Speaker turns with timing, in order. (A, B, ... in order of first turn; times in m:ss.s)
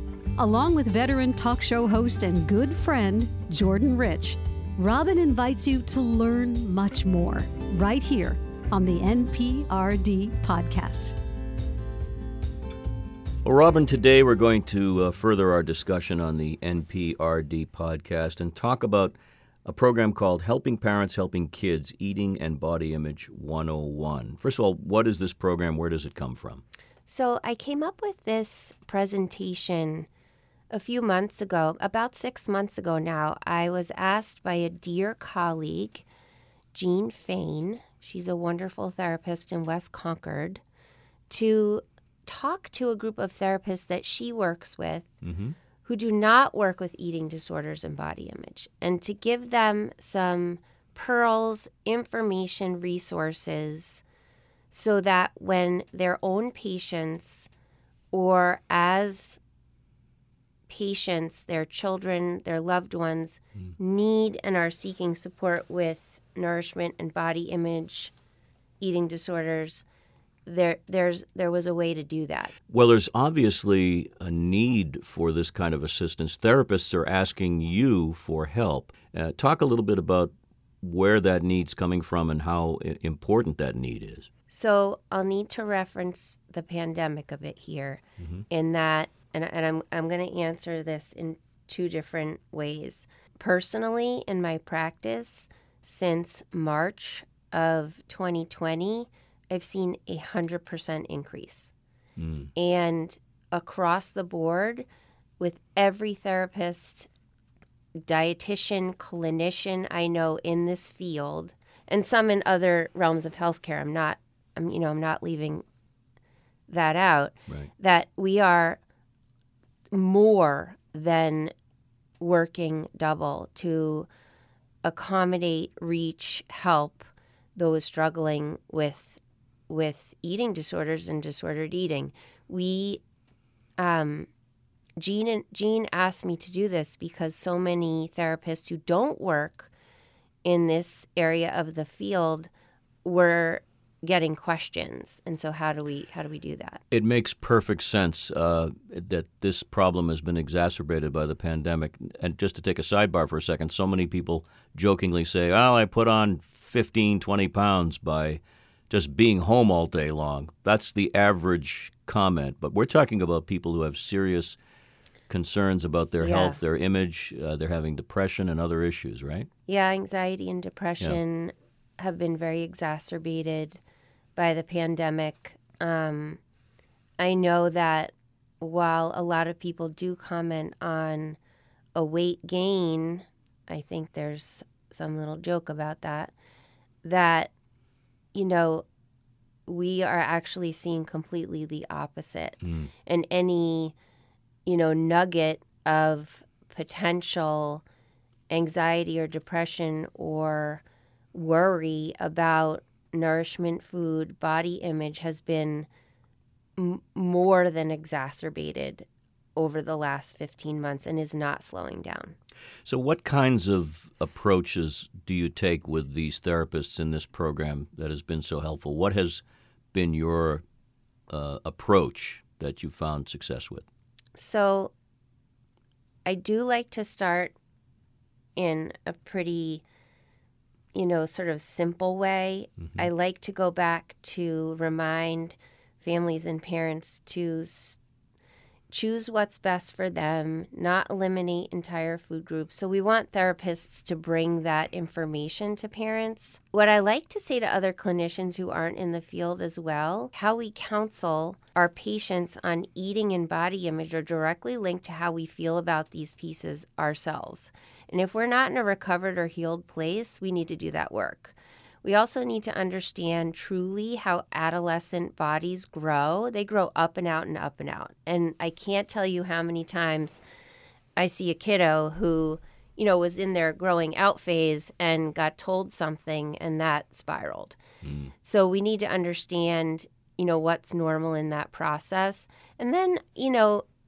0:00.4-0:11.1 A
0:13.4-0:26.6 B
0:27.1-0:30.1 C
0:30.7-0:36.0 C
0:36.7-0:40.6 C
0:41.3-0:45.1 C
0:45.2-0:45.6 B
0:45.8-0:54.0 C
0:54.7-0:57.5 C
0:58.1-0:59.4 C
1:00.7-1:08.1 C
1:08.8-1:09.8 C
1:10.4-1:12.5 C
1:12.7-1:24.3 B
1:24.5-1:41.7 C
1:42.2-1:42.5 B
1:42.6-1:44.8 C
1:45.4-1:47.1 C
1:48.0-1:55.6 C
1:56.7-1:58.8 C
1:59.9-2:01.5 C
2:02.2-2:04.1 C
2:04.8-2:13.0 C
2:13.8-2:14.3 C
2:15.0-2:19.7 C
2:20.4-2:22.5 C
2:23.0-2:26.8 C
2:26.9-2:44.6 B
2:45.3-2:49.5 B
2:46.2-2:46.6 C
2:49.7-2:53.8 C
2:54.4-2:56.4 C
2:57.2-3:01.4 C
3:01.9-3:06.3 C
3:07.0-3:07.5 C
3:08.3-3:08.8 C
3:09.7-3:13.9 C
3:12.6-3:12.9 B
3:14.6-3:17.8 C
3:18.5-3:20.8 C
3:21.3-3:25.9 C
3:26.8-3:32.3 C
3:32.8-3:40.6 B
3:41.3-3:43.8 B
3:44.4-3:44.9 C
3:46.2-3:47.5 C
3:48.6-3:49.8 C
3:50.9-3:58.0 C
3:58.9-4:30.4 C
4:31.2-4:37.8 C
4:38.0-4:38.3 B
4:38.4-4:43.8 C